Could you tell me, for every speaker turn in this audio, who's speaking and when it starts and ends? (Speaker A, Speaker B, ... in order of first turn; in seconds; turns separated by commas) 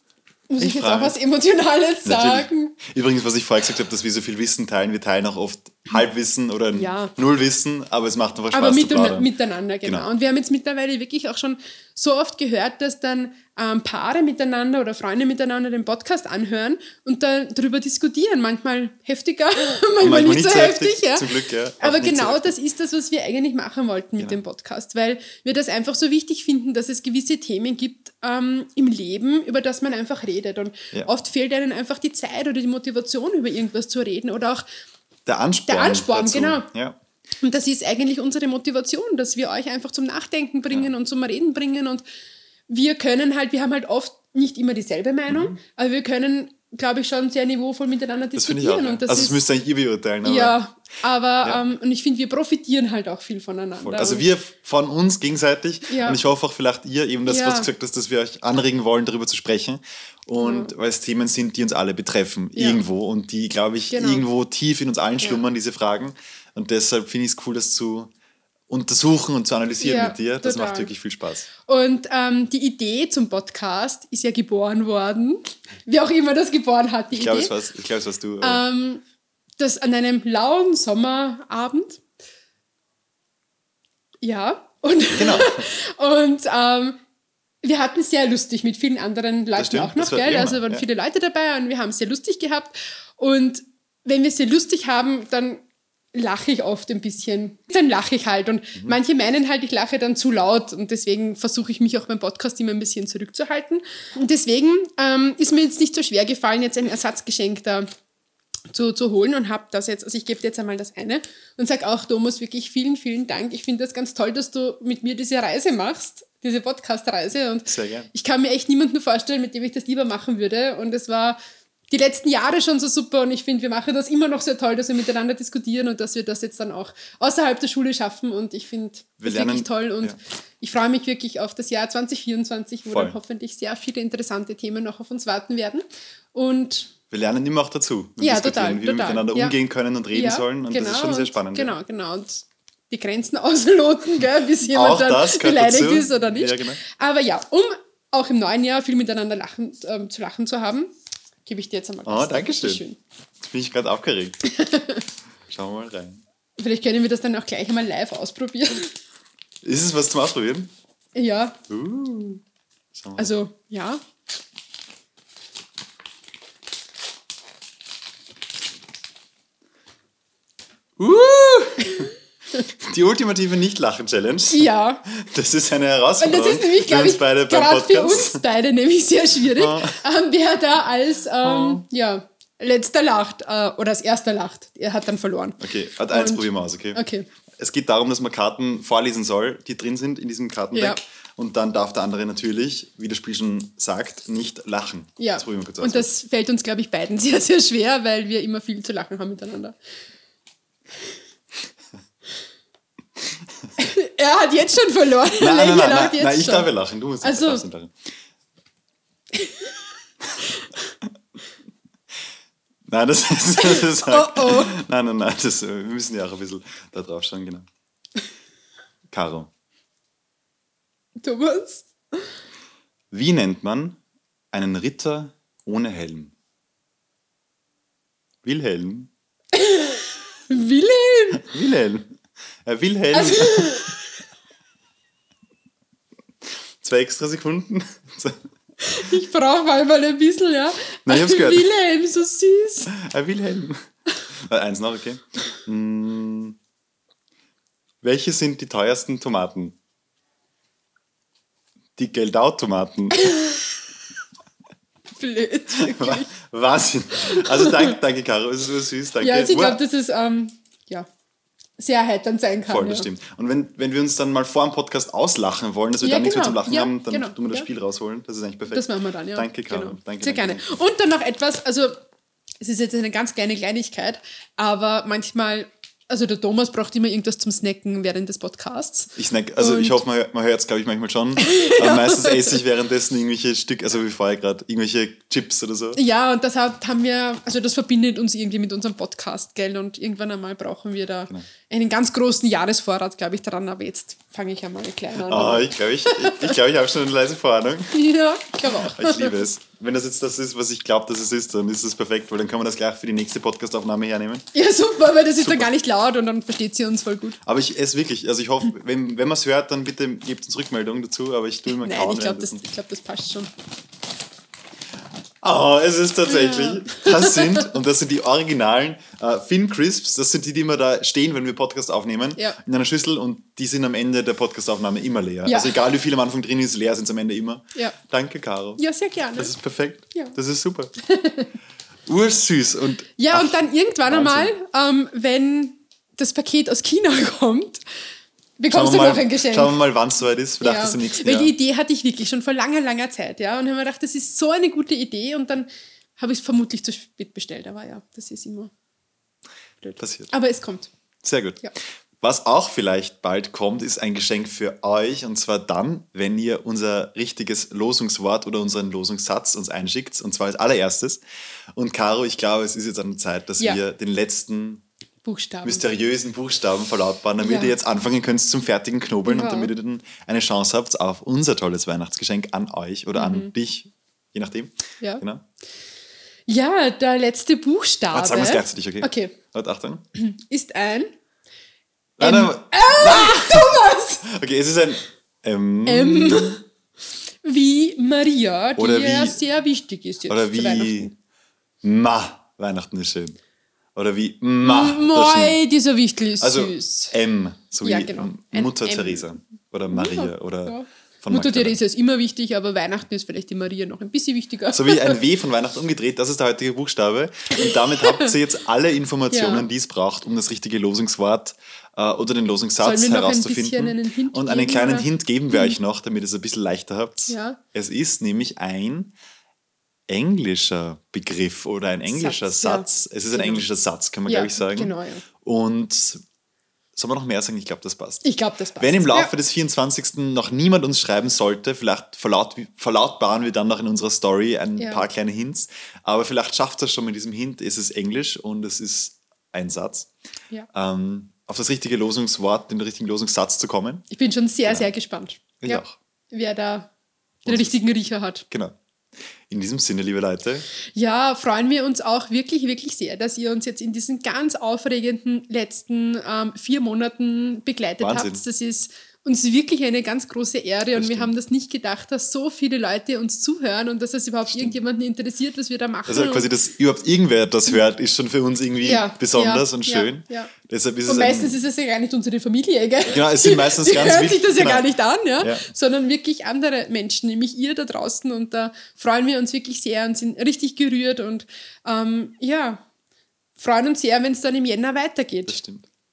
Speaker A: 0.5-2.8, Speaker B: 0.6-1.1, Speaker B: 2.0-9.3, Speaker A: 6.7-7.1, Speaker A: 8.5-34.6, Speaker B: 20.0-22.5, Speaker B: 35.2-37.0, Speaker A: 35.6-36.7, Speaker A: 37.4-42.0, Speaker A: 42.7-49.4, Speaker B: 45.3-45.6, Speaker B: 48.4-50.6, Speaker A: 50.2-54.2, Speaker B: 53.8-68.1, Speaker A: 55.9-56.2, Speaker A: 57.2-57.7, Speaker A: 60.4-60.7, Speaker A: 62.5-62.8, Speaker A: 63.9-64.2, Speaker B: 68.7-71.5, Speaker A: 69.8-70.9, Speaker A: 71.6-77.5, Speaker B: 77.1-78.6, Speaker A: 78.4-79.0, Speaker A: 79.6-82.0, Speaker A: 84.2-87.0, Speaker B: 85.2-85.7, Speaker A: 87.6-107.9, Speaker B: 89.5-90.8, Speaker A: 108.7-121.4, Speaker B: 117.7-118.1, Speaker A: 121.9-136.9, Speaker B: 129.2-130.2, Speaker B: 132.9-133.2, Speaker B: 137.1-141.8, Speaker A: 138.2-139.6, Speaker A: 140.1-150.9, Speaker B: 144.6-146.8, Speaker A: 151.4-153.0, Speaker B: 152.1-152.8, Speaker B: 153.4-154.4, Speaker A: 154.4-155.0, Speaker B: 155.5-156.2, Speaker A: 156.6-158.9, Speaker B: 159.6-160.7, Speaker A: 161.1-161.6, Speaker B: 161.7-162.4, Speaker B: 162.9-163.3, Speaker A: 163.2-164.0, Speaker B: 171.0-172.1, Speaker A: 171.8-172.6, Speaker B: 172.8-178.4, Speaker A: 174.5-175.0, Speaker A: 176.2-187.3, Speaker B: 179.5-180.0, Speaker B: 181.4-181.8, Speaker B: 185.6-187.0, Speaker B: 187.6-196.1, Speaker A: 190.7-191.0, Speaker A: 195.2-199.7, Speaker A: 203.8-206.7, Speaker B: 205.4-207.9, Speaker A: 207.2-207.6, Speaker A: 209.3-209.7, Speaker A: 210.4-210.8, Speaker B: 212.9-217.7, Speaker A: 213.6-214.8, Speaker B: 219.1-219.5, Speaker A: 221.2-222.3, Speaker B: 223.1-224.0, Speaker B: 224.5-226.3, Speaker B: 228.4-229.1, Speaker A: 229.5-231.5, Speaker B: 231.3-232.1, Speaker B: 232.6-233.9, Speaker A: 233.1-234.0, Speaker B: 236.8-238.4, Speaker A: 238.8-242.9, Speaker B: 241.1-241.7, Speaker B: 242.9-246.6, Speaker B: 248.0-249.8, Speaker B: 252.0-253.3, Speaker A: 253.2-253.7, Speaker A: 255.2-256.3, Speaker B: 255.8-259.8, Speaker A: 257.1-257.9, Speaker A: 259.2-261.1, Speaker A: 261.8-263.1, Speaker B: 262.7-270.6, Speaker A: 266.0-267.7, Speaker A: 268.7-272.0, Speaker A: 272.6-280.0, Speaker B: 279.1-286.0, Speaker A: 281.4-282.6, Speaker A: 285.9-296.5, Speaker B: 295.2-297.9, Speaker A: 297.9-299.4, Speaker B: 298.7-304.5, Speaker A: 304.5-307.4, Speaker B: 305.4-305.7, Speaker B: 307.4-312.6, Speaker A: 311.7-313.5, Speaker B: 315.4-328.8, Speaker A: 316.2-317.7, Speaker A: 325.4-325.8, Speaker A: 328.8-329.5, Speaker B: 329.4-330.9, Speaker A: 331.0-331.5, Speaker B: 332.1-334.5, Speaker A: 333.2-337.8, Speaker A: 338.6-339.8, Speaker B: 338.7-341.5, Speaker A: 340.6-348.7, Speaker A: 349.8-350.9, Speaker B: 350.0-350.3, Speaker B: 351.2-351.6, Speaker B: 352.2-361.2, Speaker B: 361.7-364.8, Speaker A: 365.2-365.8, Speaker B: 365.6-375.4, Speaker A: 367.4-367.7, Speaker A: 369.2-369.7, Speaker A: 373.1-373.5, Speaker A: 376.5-379.3, Speaker B: 378.1-380.0, Speaker A: 380.1-381.1, Speaker B: 382.2-386.6, Speaker A: 382.2-384.2, Speaker A: 385.9-386.6, Speaker A: 387.4-391.1, Speaker B: 388.8-389.4, Speaker B: 390.3-391.1, Speaker B: 391.8-393.4, Speaker B: 393.9-395.6, Speaker A: 394.6-397.1, Speaker B: 396.4-401.8, Speaker A: 397.8-405.2, Speaker B: 404.7-419.1, Speaker A: 407.5-408.3, Speaker A: 409.3-409.7, Speaker A: 412.8-415.8, Speaker A: 417.3-417.6, Speaker B: 420.1-426.2, Speaker A: 422.1-423.6, Speaker A: 424.2-425.2, Speaker B: 426.9-428.2, Speaker A: 428.2-429.3, Speaker B: 428.8-440.1, Speaker A: 434.8-435.0, Speaker B: 440.7-444.1, Speaker A: 444.1-446.9, Speaker B: 445.6-446.0, Speaker A: 447.4-448.4, Speaker B: 447.4-447.7, Speaker B: 449.5-450.6, Speaker A: 450.9-466.5, Speaker B: 458.0-458.4, Speaker B: 460.9-461.3, Speaker B: 464.5-464.8, Speaker B: 466.1-471.6, Speaker A: 468.8-470.5, Speaker A: 471.1-482.8, Speaker B: 473.1-474.9, Speaker B: 475.4-475.7, Speaker A: 483.6-485.6, Speaker B: 485.5-485.9